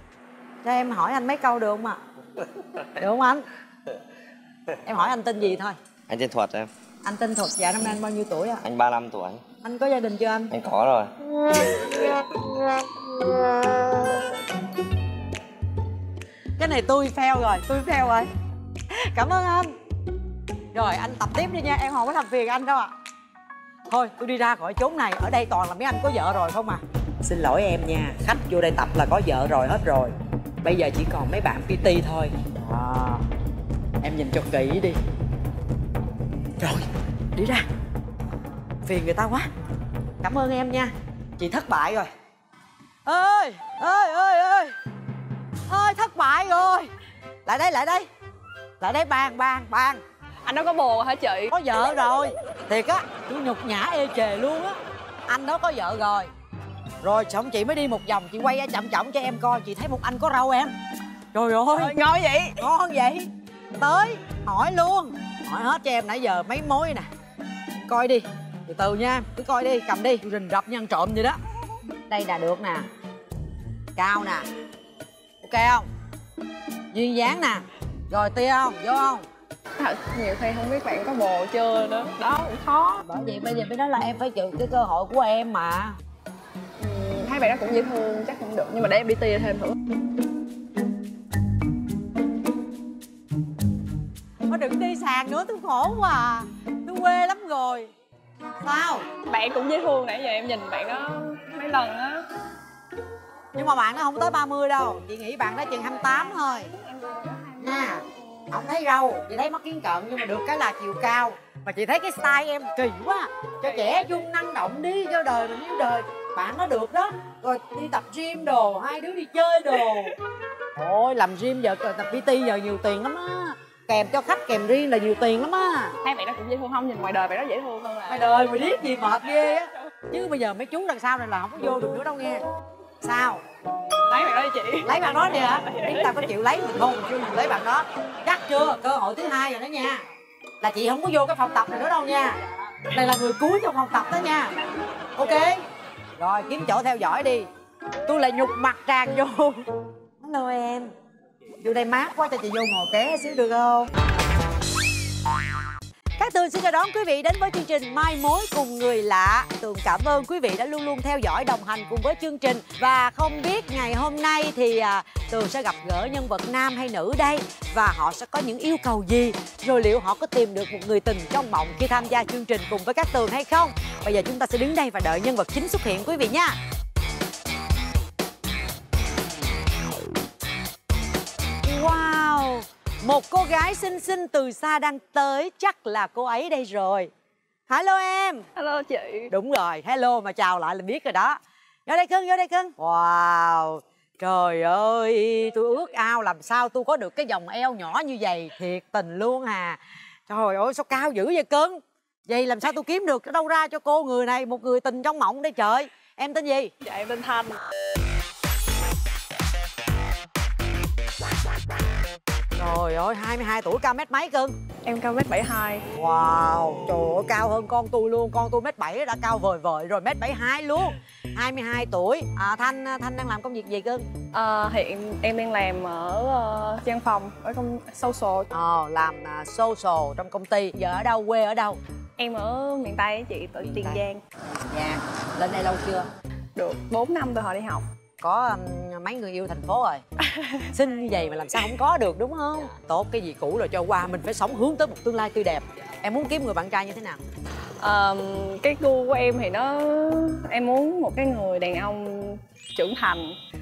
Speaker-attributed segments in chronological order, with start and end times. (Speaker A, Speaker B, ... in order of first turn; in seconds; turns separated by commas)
Speaker A: 0.6-2.0, Speaker A: 3.0-3.5, Speaker A: 4.8-5.8, Speaker B: 6.1-6.7, Speaker A: 7.0-8.6, Speaker B: 8.6-9.4, Speaker A: 9.6-10.5, Speaker B: 10.5-11.1, Speaker A: 16.6-18.3, Speaker A: 18.9-19.7, Speaker A: 20.7-22.9, Speaker A: 23.9-33.3, Speaker A: 34.0-35.0, Speaker A: 36.6-37.6, Speaker A: 38.8-39.5, Speaker A: 40.2-42.1, Speaker A: 43.0-44.8, Speaker A: 45.7-46.9, Speaker A: 47.5-48.1, Speaker A: 48.8-50.0, Speaker C: 50.4-51.5, Speaker A: 51.5-56.3, Speaker A: 57.0-60.7, Speaker A: 61.3-67.1, Speaker A: 67.8-71.4, Speaker A: 72.1-72.9, Speaker A: 74.0-74.5, Speaker A: 75.4-75.9, Speaker A: 76.9-79.2, Speaker C: 79.8-83.0, Speaker A: 83.0-86.0, Speaker C: 86.8-89.8, Speaker A: 94.5-97.9, Speaker A: 98.6-99.0, Speaker C: 99.2-102.2, Speaker A: 103.5-106.7, Speaker C: 106.0-108.0, Speaker A: 107.6-120.2, Speaker A: 120.8-126.0, Speaker C: 126.0-128.2, Speaker A: 128.1-132.4, Speaker A: 133.0-133.4, Speaker C: 134.0-136.2, Speaker A: 134.8-140.0, Speaker A: 140.6-142.4, Speaker A: 142.9-144.5, Speaker A: 145.2-145.6, Speaker A: 146.2-147.5, Speaker A: 148.1-149.7, Speaker A: 150.2-150.9, Speaker A: 151.6-153.9, Speaker A: 156.2-176.6, Speaker A: 181.6-187.1, Speaker A: 187.7-188.5, Speaker C: 188.5-189.3, Speaker A: 189.3-206.7, Speaker C: 206.8-207.6, Speaker A: 212.6-214.5, Speaker C: 214.8-215.8, Speaker A: 215.9-224.0, Speaker C: 224.3-228.5, Speaker A: 228.5-231.8, Speaker C: 232.2-234.2, Speaker A: 233.6-236.1, Speaker C: 236.5-237.8, Speaker A: 238.2-240.0, Speaker C: 240.2-240.7, Speaker A: 240.7-247.2, Speaker C: 247.8-253.4